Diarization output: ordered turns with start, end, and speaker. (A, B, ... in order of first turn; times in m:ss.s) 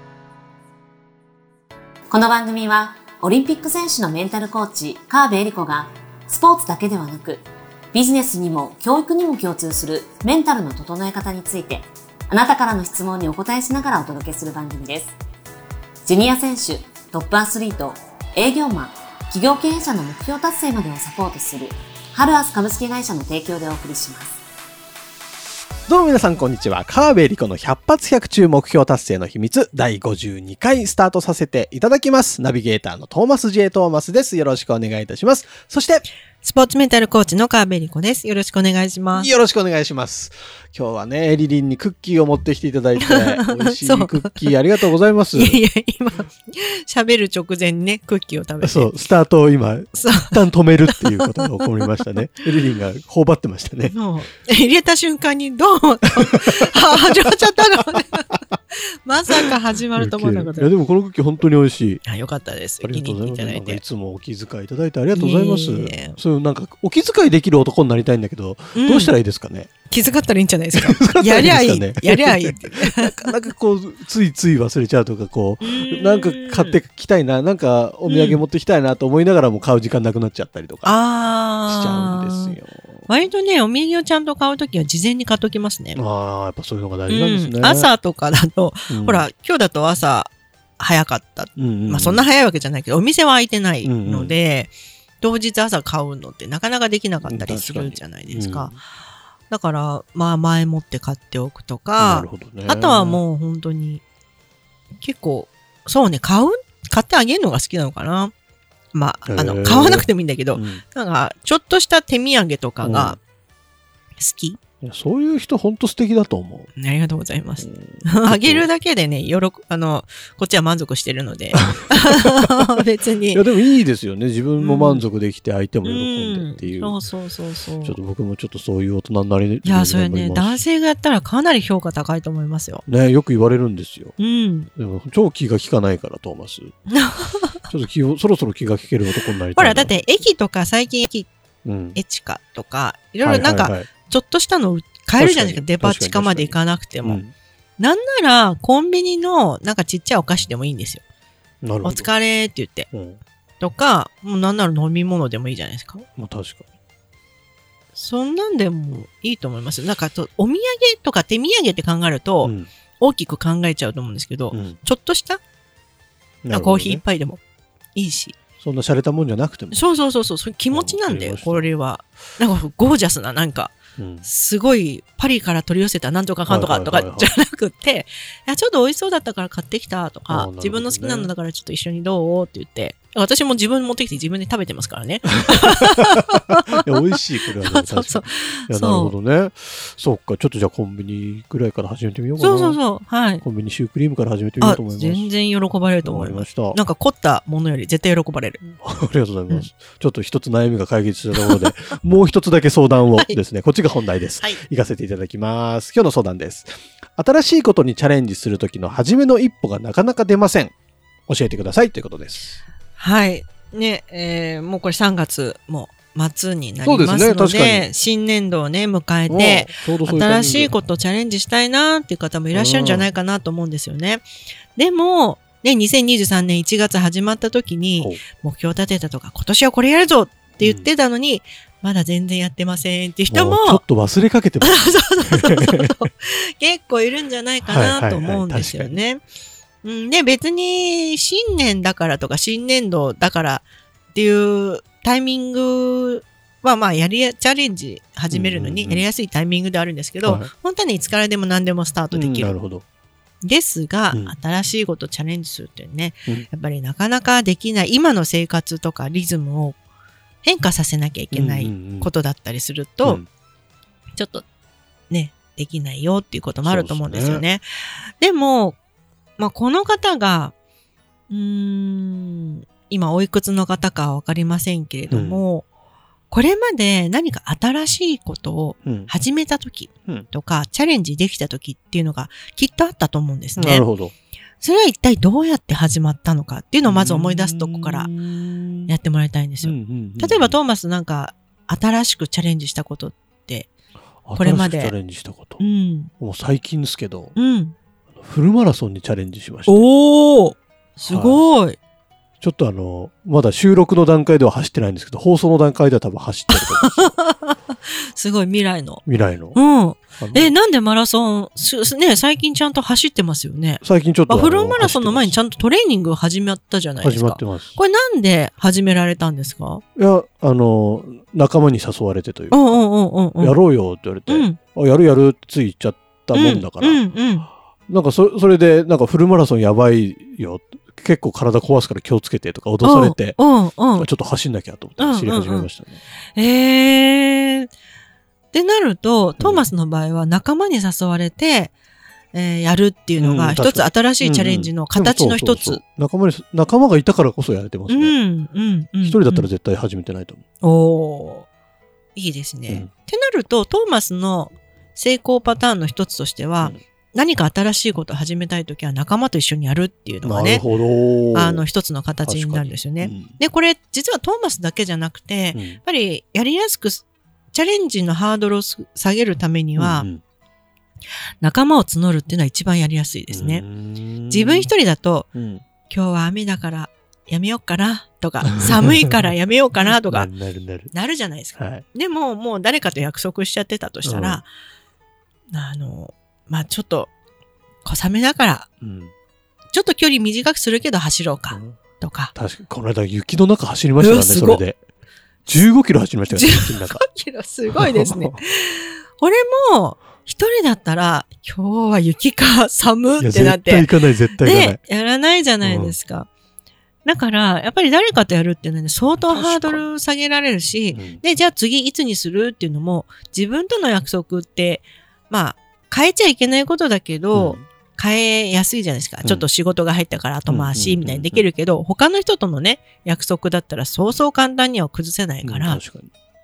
0:02.1-0:15.2 A
0:16.0-0:24.4 A
0:25.9-0:36.0 B
0:36.4-0:39.3 C
0:39.1-0:45.6 B
0:43.0-0:44.6 C
0:45.3-0:48.9 C
0:48.6-0:54.0 B
0:50.0-0:51.9 C
0:53.9-1:00.7 C
0:59.3-1:02.0 B
1:02.0-1:03.8 C
1:02.8-1:09.7 B
1:05.1-1:06.2 C
1:08.8-1:09.1 C
1:09.9-1:13.4 C
1:10.7-1:21.0 B
1:15.6-1:16.8 C
1:18.1-1:18.4 C
1:20.8-1:22.6 C
1:21.7-1:23.1 B
1:23.1-1:26.0 C
1:26.0-1:27.9 B
1:27.1-1:38.8 C
1:28.9-1:29.3 B
1:31.6-1:32.3 B
1:33.8-1:34.4 B
1:37.2-1:38.8 B
1:39.5-1:44.0 C
1:42.0-1:43.2 B
1:45.0-1:48.3 C
1:48.9-1:53.2 C
1:49.3-1:50.8 B
1:52.8-1:53.2 B
1:54.2-1:54.6 C
1:54.8-1:56.7 B
1:56.8-2:03.4 C
1:57.6-1:58.7 B
2:01.5-2:02.8 B
2:03.3-2:07.0 B
2:04.6-2:05.0 C
2:05.8-2:08.0 C
2:07.8-2:10.6 B
2:09.6-2:12.8 C
2:12.9-2:14.2 B
2:14.2-2:14.7 C
2:14.8-2:16.7 B
2:16.9-2:17.6 C
2:17.7-2:20.0 B
2:19.6-2:21.3 C
2:21.6-2:22.0 B
2:22.0-2:27.2 C
2:23.2-2:23.9 B
2:25.2-2:27.3 B
2:27.8-2:31.0 C
2:31.6-2:32.1 B
2:31.8-2:32.9 C
2:32.9-2:33.2 B
2:33.6-2:36.1 C
2:36.2-2:36.6 B
2:37.9-2:45.4 C
2:42.4-2:42.7 B
2:44.5-2:44.8 B
2:46.4-2:47.0 B
2:46.5-2:47.4 C
2:48.0-2:48.4 C
2:48.6-2:49.8 B
2:49.7-3:06.9 C
2:50.7-2:51.7 B
2:54.0-2:54.3 B
2:56.5-2:57.3 B
3:00.3-3:01.3 B
3:05.4-3:06.2 B
3:06.8-3:12.8 B
3:07.6-3:09.2 C
3:12.4-3:13.4 C
3:13.4-3:15.3 B
3:14.6-3:18.6 C
3:16.0-3:16.8 B
3:18.8-3:30.7 B
3:21.4-3:21.7 C
3:31.3-3:32.6 B
3:33.0-3:53.8 C
3:36.8-3:37.9 B
3:39.3-3:40.7 B
3:42.5-3:43.1 B
3:50.6-3:50.9 B
3:53.3-3:56.0 B
3:54.6-3:59.2 C
3:57.6-3:59.0 B
3:59.8-4:12.6 C
4:08.3-4:09.1 B
4:10.2-4:10.5 B
4:12.1-4:12.8 B
4:13.4-4:19.8 C
4:20.4-4:23.2 C
4:21.3-4:22.1 B
4:24.2-4:24.4 C
4:25.1-4:28.8 C
4:26.6-4:27.4 B
4:29.4-4:30.5 C
4:31.3-4:35.7 C
4:35.1-4:35.4 B
4:36.3-4:43.9 C
4:38.8-4:39.1 B
4:43.6-4:44.1 B
4:44.6-4:48.1 C
4:46.8-4:48.9 B
4:48.9-4:53.7 C
4:49.6-4:50.6 B
4:54.3-4:55.6 B
4:54.4-4:55.0 C
4:55.6-4:56.1 C
4:56.2-4:57.4 B
4:57.4-4:57.8 C
4:58.2-4:59.9 B
4:59.7-5:01.8 C
5:01.0-5:01.4 B
5:02.4-5:07.2 B
5:06.5-5:09.0 C
5:09.1-5:09.6 B
5:09.6-5:19.8 C
5:10.2-5:10.5 B
5:13.8-5:15.4 B
5:17.0-5:17.8 B
5:20.0-5:22.8 B
5:22.5-5:23.6 C
5:23.4-5:27.0 B
5:24.3-5:24.6 C
5:26.3-5:27.5 C
5:27.9-5:33.4 B
5:32.8-5:34.1 C
5:33.9-5:36.0 B
5:35.0-5:35.7 C
5:36.4-5:37.7 C
5:38.5-5:41.7 C
5:39.4-5:39.7 B
5:42.3-5:45.8 C
5:43.2-5:48.2 B
5:47.9-5:49.5 C
5:49.0-5:50.4 B
5:50.6-5:51.5 C
5:52.2-6:00.6 C
6:00.2-6:01.6 B
6:01.3-6:10.1 C
6:02.2-6:03.4 B
6:05.5-6:05.8 B
6:09.8-6:10.2 B
6:11.4-6:13.7 C
6:13.3-6:14.7 B
6:14.3-6:15.3 C
6:15.4-6:15.6 B
6:15.9-6:20.3 C
6:18.4-6:19.1 B
6:19.8-6:20.9 B
6:20.9-6:24.5 C
6:21.6-6:21.8 B
6:24.0-6:24.4 B
6:25.5-6:27.1 C
6:27.8-6:28.7 C
6:28.8-6:29.1 B
6:29.7-6:32.3 C
6:31.5-6:31.8 B
6:32.3-6:34.8 B
6:34.0-6:34.6 C
6:35.5-6:37.0 B
6:36.3-6:46.3 C
6:37.7-6:38.4 B
6:43.2-6:44.8 B
6:45.6-6:46.0 B
6:47.0-7:05.8 C
6:49.2-6:49.8 B
6:50.9-6:51.2 B
6:57.3-6:57.6 B
7:00.5-7:01.5 B
7:05.4-7:06.1 B